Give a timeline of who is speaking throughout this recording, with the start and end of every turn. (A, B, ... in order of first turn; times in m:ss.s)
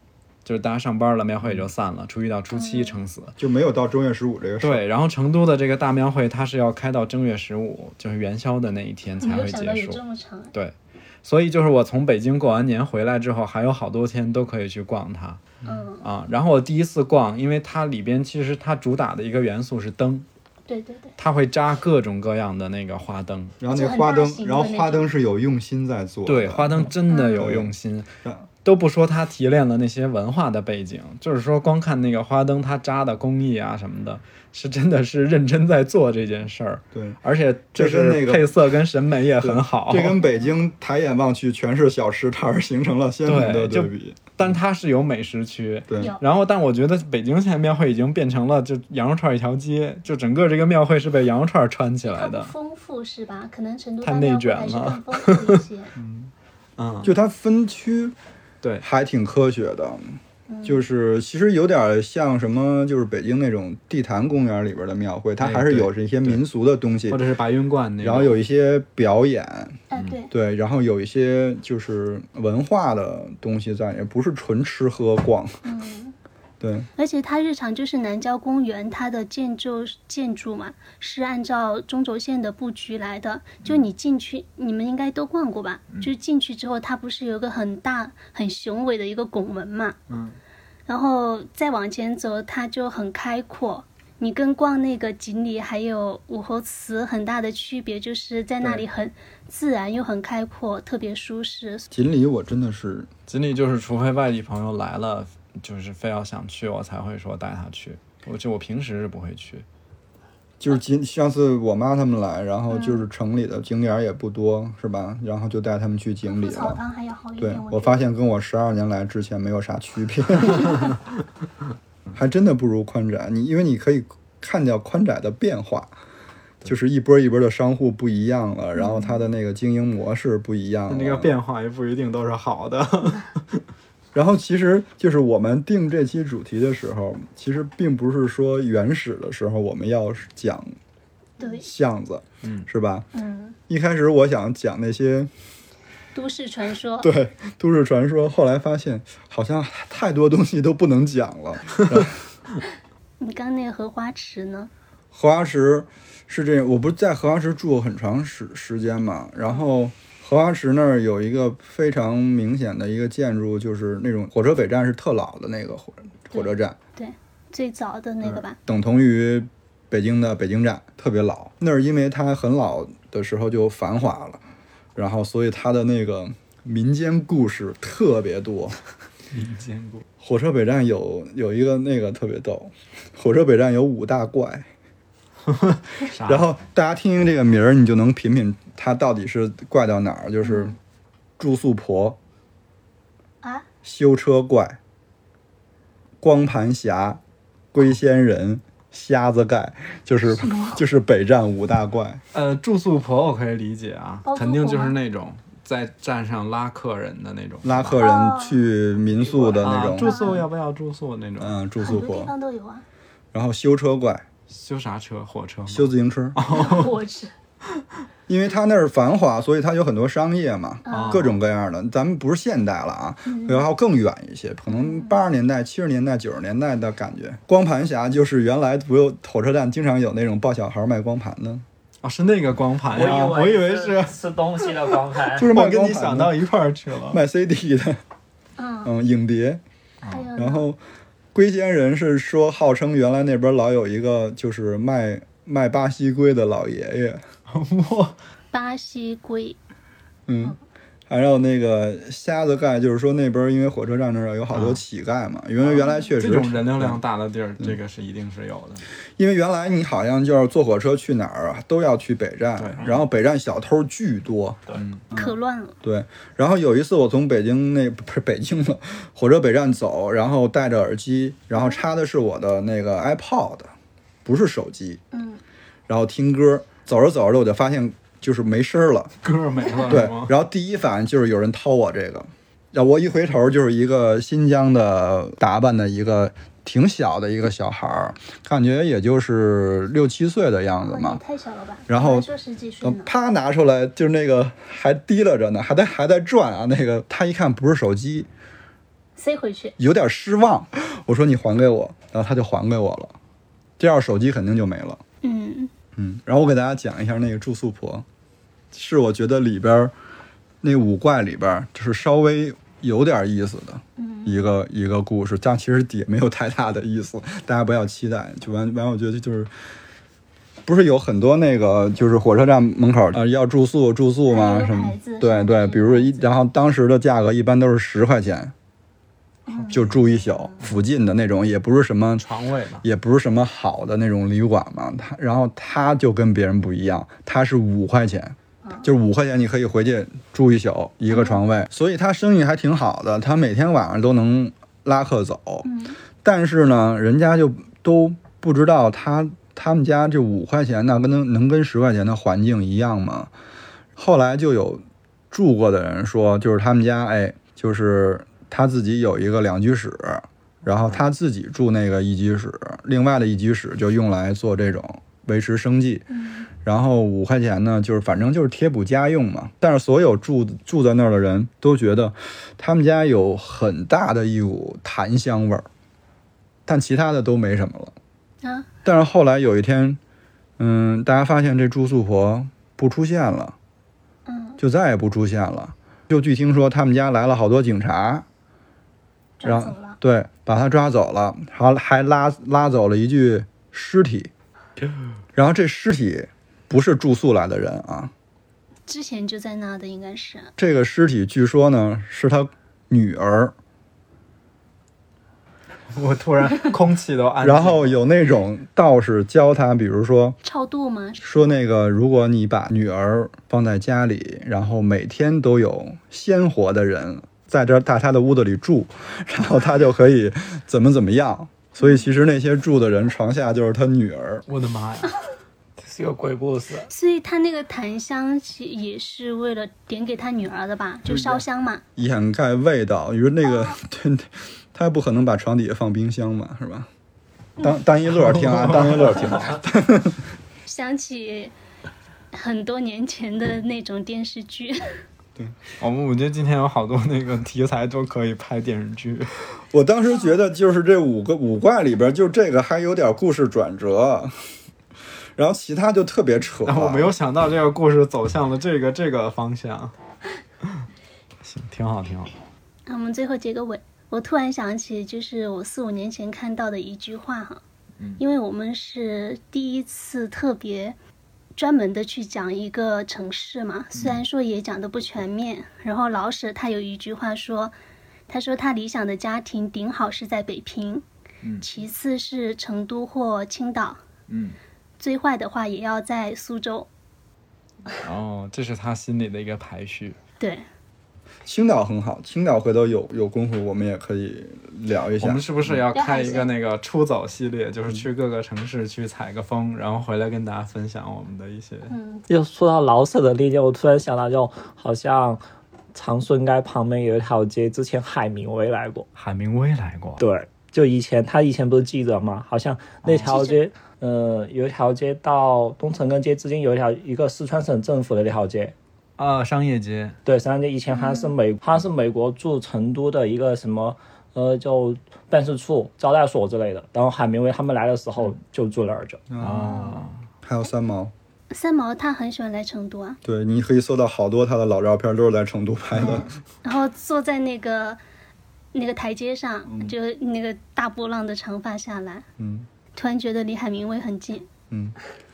0:00.4-0:03.4 A
0:02.5-0:03.0 B
0:03.4-0:04.8 C
0:04.6-0:10.0 A
0:09.2-0:10.5 B
0:10.5-0:15.4 A
0:15.6-0:16.0 B
0:16.0-0:20.3 A
0:20.7-0:21.2 B
0:21.2-0:23.6 A
0:23.6-0:27.7 C
0:23.7-0:25.1 B
0:26.3-0:28.1 A
0:27.1-0:27.4 B
0:28.6-0:40.2 A
0:36.9-0:37.2 C
0:37.8-0:38.6 C
0:39.4-0:44.5 C
0:43.3-0:52.5 A
0:45.9-0:46.2 C
0:52.0-0:55.9 B
0:54.0-0:55.6 A
0:56.0-0:56.3 C
0:56.8-0:57.1 A
0:57.0-0:58.2 C
0:58.8-1:07.2 C
1:00.5-1:00.8 B
1:05.4-1:06.4 A
1:07.1-1:08.4 A
1:08.0-1:15.6 C
1:09.9-1:10.3 B
1:15.6-1:16.2 B
1:16.6-1:16.9 C
1:17.0-1:30.0 B
1:30.1-1:30.4 A
1:30.9-1:41.9 B
1:41.9-1:43.1 C
1:43.3-1:49.6 A
1:50.6-1:56.8 C
1:52.7-1:53.0 B
1:56.3-1:58.0 B
1:57.4-2:01.0 C
2:02.2-2:05.9 C
2:06.6-2:11.4 C
2:08.8-2:09.1 B
2:10.9-2:13.6 A
2:14.1-2:20.8 C
2:21.4-2:21.7 B
2:21.4-2:23.1 C
2:23.1-2:23.6 B
2:23.7-2:25.3 C
2:26.1-2:27.1 B
2:27.0-2:32.2 C
2:33.2-2:34.7 B
2:35.1-2:46.8 C
2:46.3-2:48.6 B
2:48.2-2:54.4 C
2:55.0-2:58.8 C
2:59.3-3:00.0 A
3:00.2-3:04.7 C
3:05.5-3:06.5 A
3:06.2-3:10.8 C
3:10.4-3:10.7 B
3:11.4-3:12.2 C
3:13.8-3:14.8 C
3:16.2-3:17.2 C
3:17.7-3:22.2 C
3:20.4-3:20.8 B
3:22.3-3:28.0 A
3:24.3-3:25.0 B
3:27.6-3:30.4 C
3:28.0-3:28.6 B
3:29.4-3:30.5 B
3:29.6-3:31.6 A
3:31.4-3:32.3 C
3:31.8-3:32.9 B
3:33.3-3:34.3 C
3:34.5-3:37.0 A
3:35.7-3:36.4 C
3:36.5-3:37.3 B
3:38.3-3:51.6 C
3:40.9-3:41.3 B
3:40.9-3:41.4 A
3:43.3-3:43.6 B
3:44.7-3:45.1 B
3:52.0-3:57.2 A
3:52.9-3:55.5 D
3:55.3-3:56.4 C
3:57.1-3:58.0 C
3:58.6-3:58.9 B
3:58.8-3:59.6 C
4:00.0-4:00.3 A
4:00.1-4:00.6 B
4:00.4-4:00.8 C
4:01.3-4:07.2 C
4:07.5-4:08.2 A
4:08.5-4:09.6 B
4:10.3-4:10.6 C
4:11.1-4:17.0 C
4:14.5-4:14.8 A
4:15.6-4:18.8 A
4:15.7-4:16.1 B
4:19.2-4:33.7 C
4:22.6-4:23.0 A
4:24.7-4:25.1 A
4:25.1-4:25.8 B
4:34.2-4:35.0 C
4:35.1-4:35.4 B
4:35.9-4:39.1 C
4:39.2-4:40.4 A
4:39.9-4:51.2 C
4:50.8-4:53.1 B
4:51.9-4:52.3 C
4:52.8-4:58.3 C
4:59.2-4:59.8 B
4:59.8-5:03.2 C
5:03.8-5:05.0 C
5:05.2-5:05.7 B
5:06.0-5:08.1 C
5:08.7-5:09.9 C
5:10.6-5:19.5 C
5:14.0-5:14.4 B
5:20.7-5:28.5 C
5:24.3-5:26.2 B
5:29.5-5:30.5 B
5:29.6-5:32.3 C
5:32.2-5:32.8 A
5:32.8-5:45.7 C
5:38.6-5:38.9 B
5:41.1-5:41.4 B
5:45.6-5:46.0 B
5:46.2-5:53.3 C
5:54.0-6:06.1 C
6:06.1-6:06.5 B
6:06.6-6:15.7 C
6:16.7-6:18.0 C
6:18.4-6:18.7 B
6:18.8-6:20.0 C
6:20.6-6:23.6 C
6:24.3-6:24.6 B
6:24.6-6:28.2 C
6:29.4-6:30.0 B
6:29.4-6:34.3 C
6:35.4-6:38.1 C
6:38.9-6:40.5 B
6:40.6-6:43.5 C
6:45.9-6:48.0 A
6:47.4-6:50.4 C
6:50.4-6:51.5 B
6:51.2-7:04.4 C
7:01.8-7:02.1 B
7:04.5-7:05.2 A
7:05.8-7:06.9 D
7:06.9-7:11.8 B
7:11.1-7:11.4 A
7:12.0-7:16.9 C
7:17.6-7:20.2 C
7:18.2-7:19.6 A
7:20.6-7:21.5 B
7:22.3-7:24.8 B
7:25.8-7:29.3 A
7:29.7-7:34.3 C
7:35.4-7:37.1 C
7:36.6-7:40.0 A
7:41.4-7:42.3 A
7:42.9-7:47.6 B
7:48.2-7:51.0 B
7:51.6-7:57.8 B
7:58.3-8:01.0 B
8:01.6-8:04.0 B
8:04.3-8:04.6 A
8:05.0-8:06.9 B
8:07.9-8:10.2 A
8:10.4-8:10.7 B
8:11.4-8:15.8 C
8:15.2-8:21.9 A
8:15.9-8:16.5 B
8:21.9-8:22.2 B
8:22.3-8:25.4 D
8:25.9-8:29.1 D
8:29.2-8:30.2 A
8:30.2-8:38.8 D
8:33.0-8:33.3 A
8:33.2-8:33.6 B
8:39.2-8:40.2 A
8:40.2-8:49.2 D
8:40.9-8:41.3 B
8:49.3-8:51.1 C
8:49.4-8:50.2 A
8:51.5-8:53.2 B
8:53.2-8:56.3 C
8:56.0-8:58.0 B
8:58.7-9:02.3 B
8:59.7-8:59.9 C
9:02.4-9:02.7 C
9:03.0-9:04.5 B
9:04.7-9:05.0 C